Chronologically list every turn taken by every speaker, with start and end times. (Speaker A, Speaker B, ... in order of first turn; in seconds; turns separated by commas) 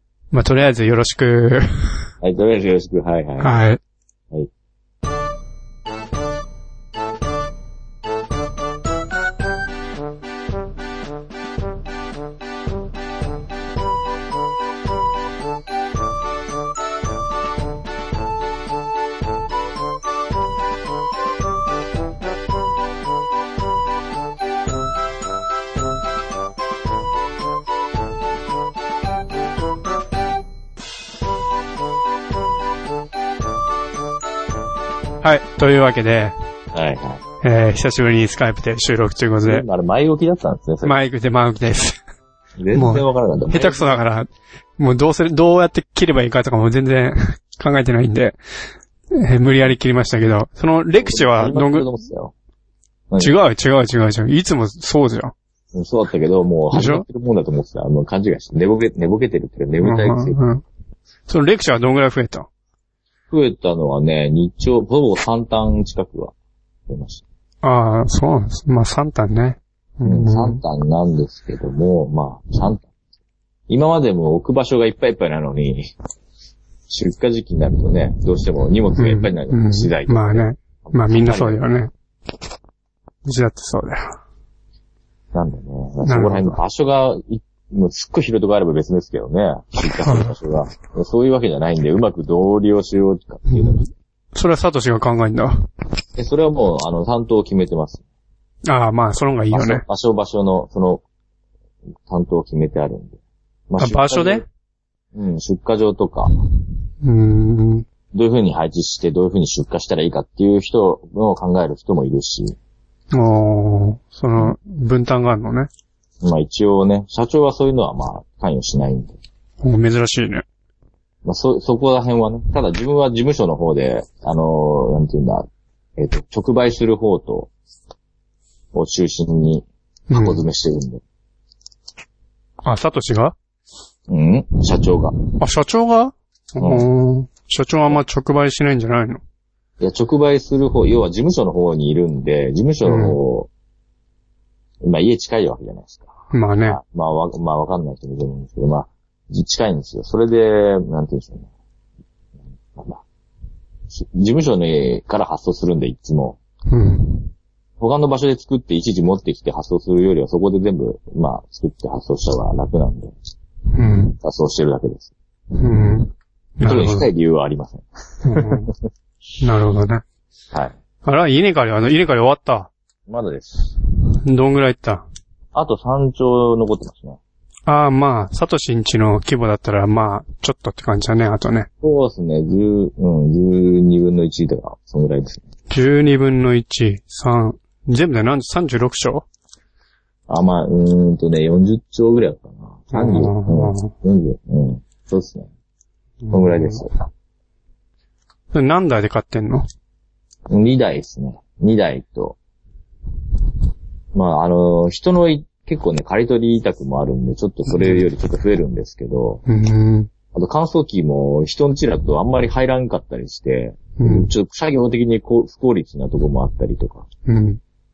Speaker A: 0.3-2.1, Speaker B: 2.2-3.6, Speaker A: 3.4-3.8, Speaker A: 35.2-36.3, Speaker B: 36.7-37.2, Speaker A: 37.4-39.6, Speaker B: 39.4-41.0, Speaker A: 40.8-42.0, Speaker B: 42.6-44.0, Speaker A: 42.7-48.4, Speaker A: 49.1-51.9, Speaker B: 51.0-52.3, Speaker B: 53.1-53.4, Speaker A: 53.2-55.3, Speaker B: 55.7-60.4, Speaker A: 56.7-57.0, Speaker A: 59.8-60.6, Speaker A: 61.3-62.5, Speaker B: 63.3-66.3, Speaker B: 66.9-67.2, Speaker A: 67.6-70.6, Speaker B: 70.0-72.9, Speaker B: 73.7-75.9, Speaker B: 76.9-81.7, Speaker A: 78.9-81.9, Speaker A: 83.2-84.2, Speaker B: 85.3-93.8, Speaker A: 86.0-86.6, Speaker A: 90.0-90.3, Speaker A: 93.5-95.7, Speaker B: 96.2-98.0, Speaker A: 98.7-99.8, Speaker B: 99.5-101.0, Speaker B: 102.1-103.2, Speaker B: 103.7-104.4, Speaker A: 103.8-104.5, Speaker B: 105.1-106.3, Speaker A: 107.0-107.8, Speaker B: 108.1-112.5, Speaker A: 113.1-115.7, Speaker B: 116.2-119.2, Speaker A: 119.6-120.4, Speaker B: 121.2-127.5, Speaker B: 128.7-131.0, Speaker A: 130.1-130.4, Speaker A: 132.6-133.3, Speaker B: 134.1-135.2, Speaker A: 135.3-139.2, Speaker B: 136.6-136.8, Speaker B: 139.8-143.5, Speaker A: 142.8-143.2, Speaker B: 144.8-146.1, Speaker A: 146.3-146.8, Speaker B: 146.7-151.5, Speaker B: 152.7-153.0, Speaker B: 153.9-156.4, Speaker A: 156.7-157.3, Speaker B: 157.8-163.1, Speaker A: 163.7-164.2, Speaker B: 164.2-165.1, Speaker A: 165.6-167.1, Speaker B: 166.6-168.7, Speaker A: 168.2-168.7, Speaker A: 169.4-170.0, Speaker A: 171.0-172.7, Speaker B: 173.1-173.7, Speaker A: 174.2-175.1, Speaker B: 175.5-177.2, Speaker A: 177.7-181.7, Speaker B: 181.8-185.4, Speaker A: 185.7-189.2, Speaker B: 190.3-195.5, Speaker A: 192.9-193.9, Speaker A: 196.2-196.8, Speaker B: 196.3-197.1, Speaker A: 198.5-199.7, Speaker B: 200.5-202.4, Speaker B: 204.1-209.4, Speaker A: 207.7-208.1, Speaker A: 209.5-210.1, Speaker B: 210.3-217.1, Speaker A: 214.0-214.3, Speaker A: 217.3-217.6